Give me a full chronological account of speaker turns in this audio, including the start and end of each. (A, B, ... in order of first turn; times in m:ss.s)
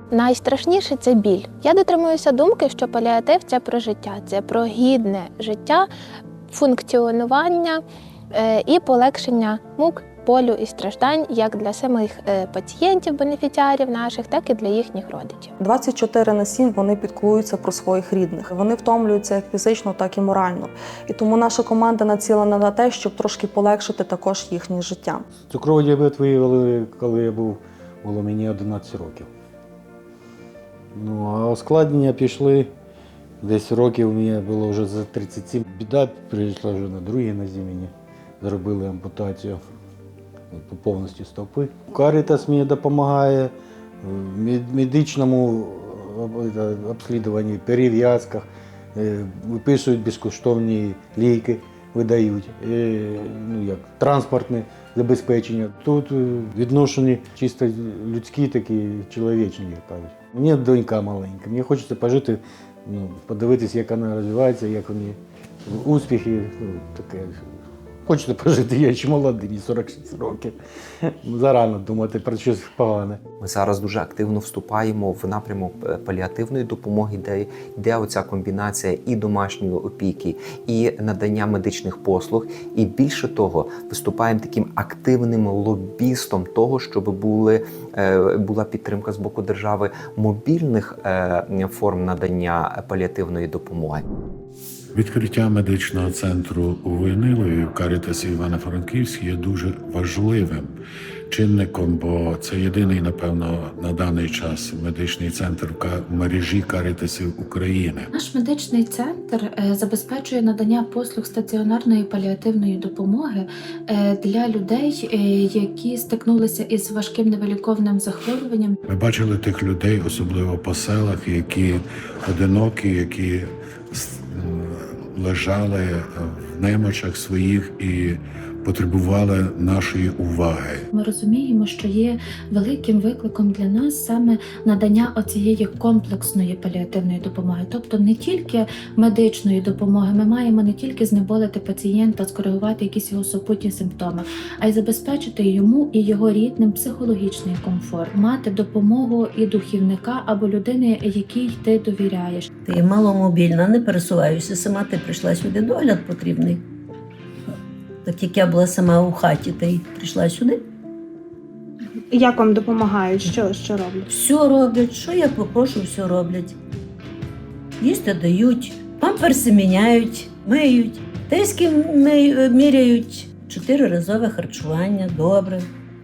0:00.1-0:05.9 A
0:06.5-0:07.8 A
0:08.3-0:15.5 A
0:15.6-0:25.3 B
0:25.5-0:29.3 C
0:30.9-0:32.7 C
0:33.4-0:39.6 C
0:40.5-1:07.4 C
1:08.1-1:13.2 C
1:13.4-1:34.0 D
1:34.9-1:40.7 E
1:41.3-1:48.1 E
1:48.1-1:58.8 F
1:58.9-2:10.9 E
2:10.9-2:32.5 F
2:32.6-2:36.6 G
2:38.0-2:40.6 G
2:42.1-2:44.1 H
2:44.1-2:46.6 G
2:47.8-2:55.7 G